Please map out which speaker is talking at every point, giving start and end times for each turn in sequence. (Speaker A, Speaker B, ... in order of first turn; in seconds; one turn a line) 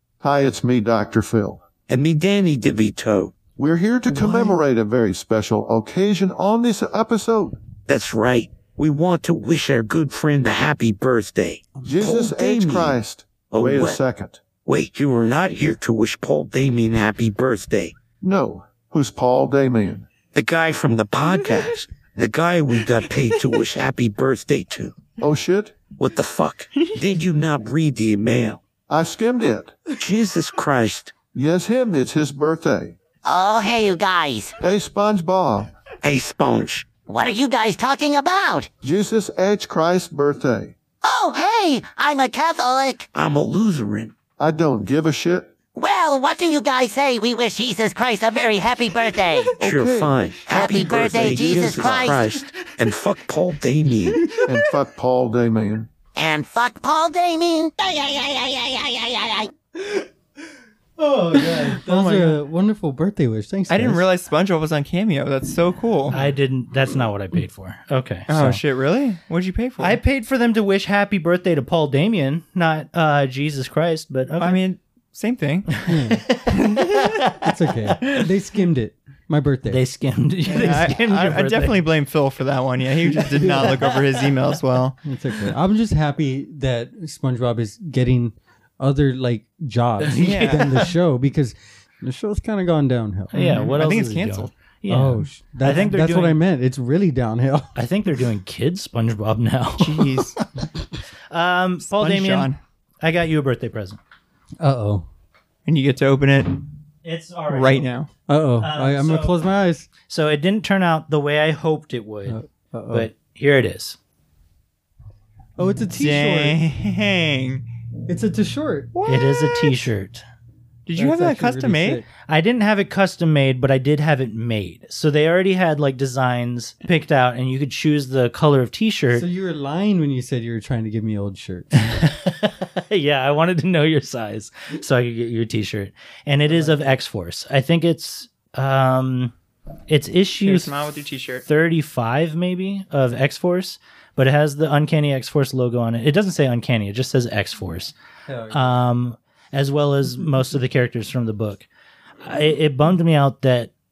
Speaker A: 0.2-1.6
Speaker B: 1.9-3.4
Speaker A: 3.6-7.6
Speaker C: 4.1-4.6
Speaker B: 7.8-14.0
Speaker A: 11.8-14.4
Speaker B: 14.6-17.9
Speaker A: 18.2-20.1
Speaker B: 20.3-24.9
Speaker A: 25.2-25.9
Speaker B: 25.9-28.6
Speaker A: 28.9-29.8
Speaker B: 29.9-31.2
Speaker A: 31.3-33.0
Speaker D: 33.2-34.6
Speaker A: 34.6-35.7
Speaker B: 36.0-36.9
Speaker D: 37.1-38.7
Speaker A: 38.8-40.8
Speaker D: 41.0-43.1
Speaker B: 43.1-44.1
Speaker A: 44.4-45.6
Speaker D: 45.7-49.5
Speaker A: 49.6-50.3
Speaker B: 49.6-54.4
Speaker D: 50.5-52.3
Speaker A: 51.0-52.1
Speaker E: 54.2-54.5
Speaker A: 54.5-55.9
Speaker D: 56.1-59.5
Speaker C: 61.0-64.0
Speaker E: 61.5-62.4
Speaker E: 63.7-66.2
Speaker F: 66.1-68.6
Speaker E: 68.3-70.0
Speaker F: 69.8-74.6
Speaker E: 74.4-75.8
Speaker C: 75.8-76.2
Speaker F: 76.1-77.5
Speaker E: 76.5-77.2
Speaker C: 77.4-79.8
Speaker F: 79.7-81.8
Speaker E: 80.5-85.0
Speaker C: 83.1-83.8
Speaker C: 85.0-93.7
Speaker F: 90.0-90.9
Speaker E: 90.2-90.7
Speaker F: 93.3-96.4
Speaker E: 93.3-94.5
Speaker C: 94.9-97.8
Speaker F: 97.8-100.4
Speaker E: 99.8-100.4
Speaker F: 101.3-104.0
Speaker E: 101.8-102.6
Speaker C: 104.6-105.1
Speaker E: 105.7-106.6
Speaker F: 107.0-107.9
Speaker E: 107.5-108.1
Speaker C: 108.3-109.9
Speaker F: 108.6-109.4
Speaker F: 110.1-114.0
Speaker C: 112.3-113.1
Speaker C: 115.6-116.6
Speaker E: 115.9-117.7
Speaker C: 118.1-118.9
Speaker E: 118.9-119.8
Speaker F: 119.1-120.2
Speaker E: 120.9-122.0
Speaker C: 121.0-122.1
Speaker F: 122.3-129.3
Speaker C: 129.1-131.9
Speaker F: 131.7-139.3
Speaker C: 136.4-136.9
Speaker F: 139.9-140.7
Speaker E: 140.4-141.4
Speaker F: 141.4-147.9
Speaker C: 148.3-148.9
Speaker F: 148.5-151.7
Speaker F: 152.2-153.7